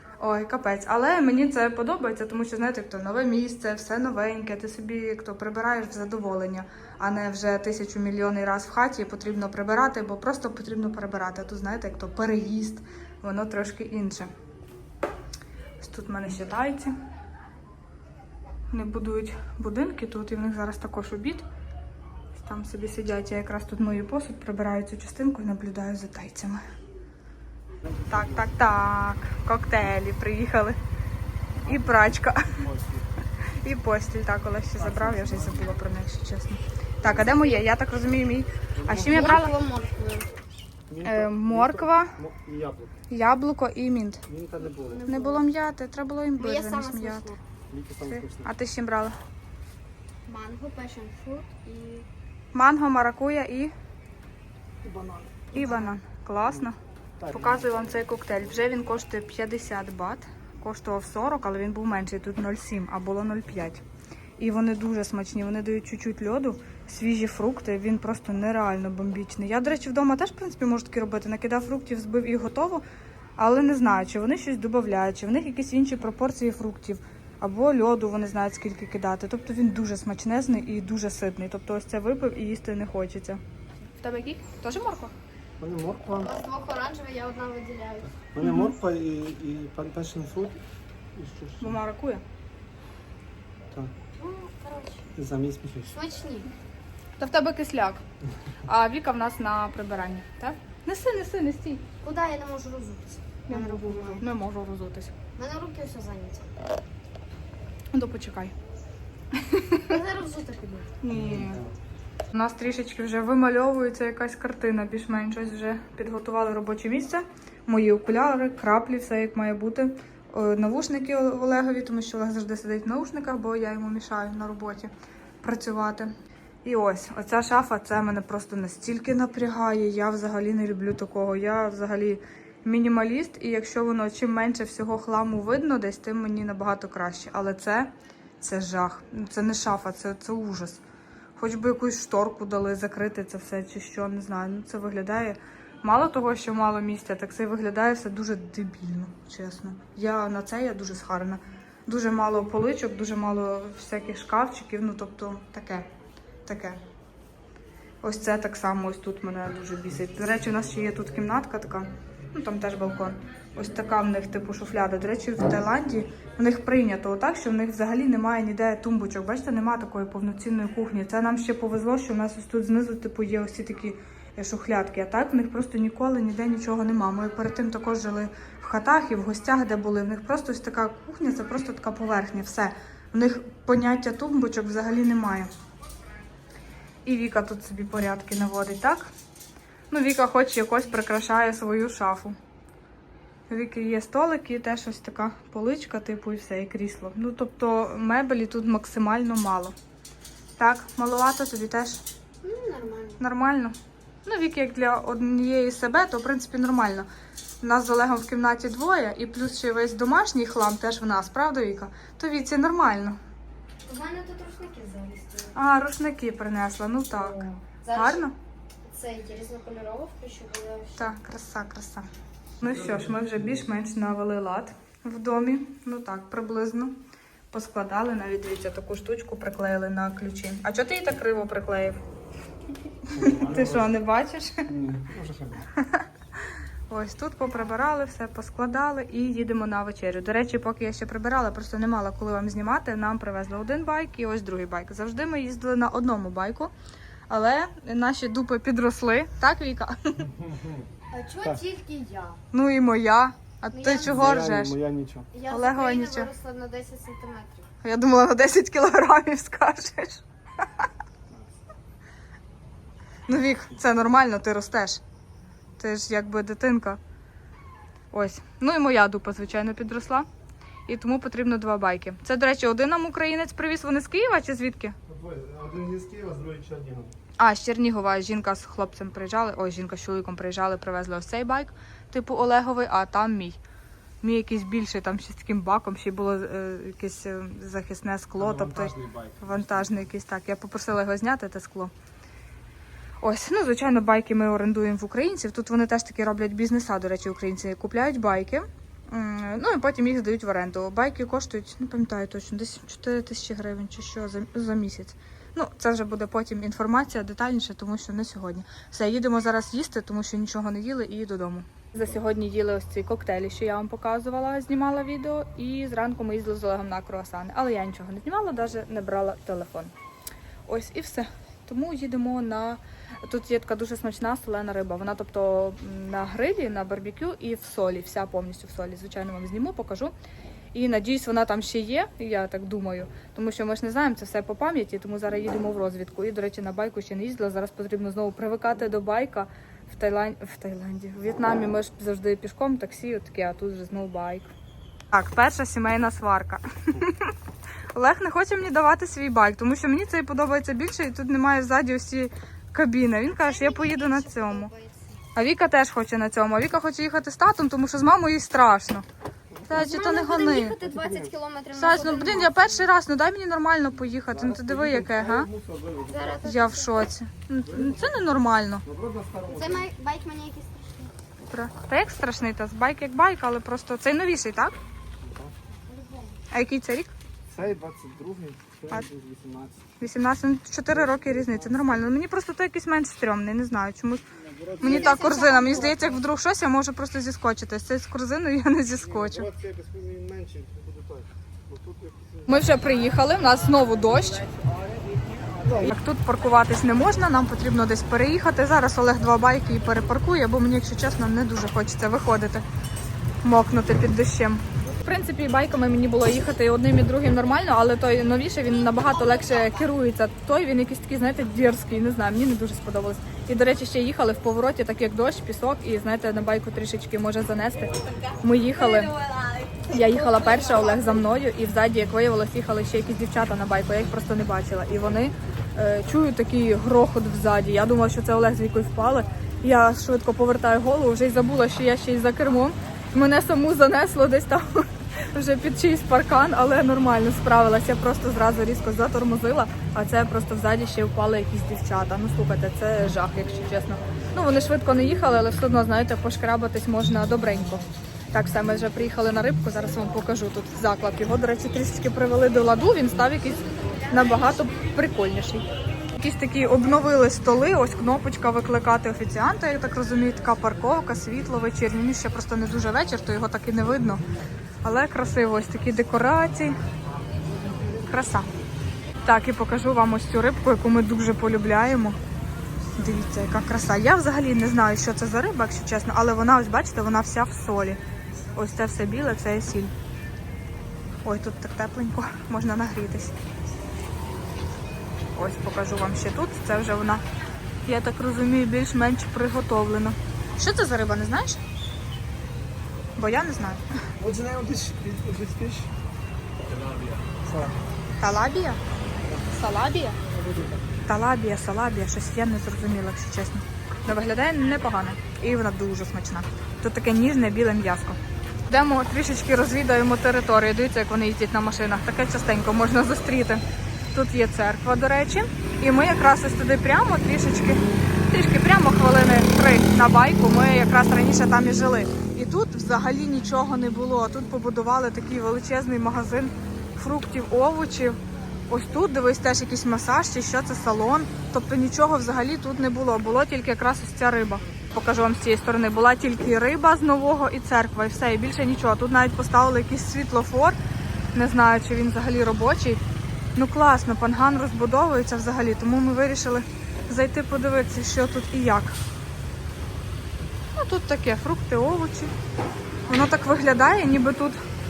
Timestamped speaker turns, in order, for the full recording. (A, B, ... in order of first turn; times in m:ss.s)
0:00.2-0:14.3 A
0:15.8-0:16.9 A
0:18.7-0:21.4 A
0:22.3-0:26.6 A
0:27.9-0:28.2 B
0:28.1-0:30.8 A
0:31.6-0:32.6 A
0:32.6-0:33.0 B
0:33.6-0:39.6 A
0:37.0-0:37.6 C
0:38.8-0:39.4 B
0:39.0-0:40.3 C
0:40.9-0:43.0 B
0:41.0-0:42.2 A
0:43.1-0:44.2 A
0:44.3-0:45.1 B
0:44.8-0:45.4 C
0:45.1-0:47.3 A
0:46.4-0:47.4 C
0:47.7-0:48.5 B
0:48.1-0:49.2 A
0:50.3-0:52.1 C
0:52.5-0:53.7 A
0:54.8-0:55.5 B
0:55.5-0:56.8 A
0:57.2-0:57.6 B
0:57.3-1:03.8 A
1:04.4-1:12.8 A
1:13.4-1:23.4 A
1:24.0-1:25.1 A
1:25.6-1:26.3 B
1:26.2-1:28.2 C
1:28.2-1:30.6 B
1:28.4-1:28.7 A
1:31.2-1:31.8 B
1:31.6-1:32.2 A
1:34.2-1:35.1 C
1:35.2-1:36.0 B
1:35.9-1:36.5 C
1:37.2-1:38.0 A
1:38.7-1:41.8 A
1:42.0-1:44.2 C
1:43.5-1:45.1 A
1:45.4-1:46.5 C
1:47.9-1:48.5 A
1:49.3-1:50.0 A
1:49.9-1:50.9 C
1:51.0-1:51.6 A
1:51.1-1:51.7 B
1:52.3-2:04.9 A
2:05.4-2:06.1 A
2:06.6-2:20.8 A
2:21.4-2:35.9 A
2:36.4-2:36.8 A
2:38.0-3:05.5 A
3:07.0-3:09.1 A
3:09.9-3:12.4 A
3:13.5-3:19.7 A
3:20.6-3:22.0 A
3:22.4-3:23.2 C
3:23.2-3:27.1 A
3:27.6-3:33.2 A
3:33.8-3:35.6 C
3:35.5-3:38.3 A
3:37.1-3:38.3 C
3:38.9-3:41.1 C
3:41.0-3:42.0 A
3:42.6-3:47.0 A
3:47.5-3:52.0 A
3:53.1-3:54.7 A
3:53.1-3:53.9 B
3:54.7-3:55.6 B
3:55.8-3:56.0 A
3:56.9-4:06.7 A
4:07.3-4:10.3 A
4:10.4-4:10.8 B
4:11.1-4:12.4 C
4:12.5-4:14.8 A
4:13.7-4:14.1 C
4:14.0-4:15.3 B
4:15.3-4:17.7 C
4:15.5-4:16.3 A
4:17.8-4:20.8 A
4:21.3-4:21.5 B
4:23.3-4:25.0 A
4:25.8-4:27.0 A
4:28.1-4:30.3 A
4:30.9-4:35.0 A
4:35.1-4:37.2 B
4:37.4-4:43.6 A
4:44.2-4:51.9 A
4:48.4-4:50.0 B
4:53.2-5:19.9 A
5:20.7-5:30.1 A
5:30.7-5:44.5 A
5:45.1-5:47.3 A
5:48.0-5:54.7 A
5:53.3-5:55.2 C
5:55.4-5:59.0 A
5:59.5-5:59.9 B
5:59.7-6:00.8 A
5:59.7-6:02.9 C
6:00.8-6:01.3 B
6:01.7-6:05.5 A
6:04.3-6:06.5 B
6:06.1-6:07.0 C
6:06.4-6:08.8 A
6:07.6-6:08.2 B
6:08.8-6:09.9 B
6:09.5-6:11.1 C
6:11.5-6:14.8 A
6:15.2-6:15.5 B
6:15.9-6:16.4 C
6:16.5-6:17.1 A
6:17.5-6:19.9 B
6:20.0-6:24.2 A
6:21.0-6:22.0 B
6:24.4-6:25.1 B
6:24.8-6:26.0 C
6:24.8-6:29.5 A
6:29.0-6:32.9 B
6:32.5-6:34.5 A
6:35.6-6:35.9 B
6:35.8-6:42.6 A
6:43.4-6:59.1 A
6:49.1-6:49.8 C
6:58.8-7:01.2 C
6:59.9-7:35.6 A
7:36.2-7:44.2 A
7:44.8-7:46.8 A
7:48.1-7:48.5 A
7:49.2-7:52.2 A
7:52.9-7:58.0 A
7:58.5-7:59.9 A
8:01.2-8:03.4 A
8:05.4-8:07.2 A
8:07.9-8:11.6 A
8:13.2-8:13.8 A
8:14.2-8:15.9 B
8:16.7-8:17.8 B
8:18.2-8:18.8 A
8:19.5-8:20.2 A
8:20.4-8:20.8 B
8:21.1-9:00.8 A
9:01.3-9:03.0 A
9:03.6-9:09.0 A
9:10.8-9:12.3 A
9:13.1-9:14.6 A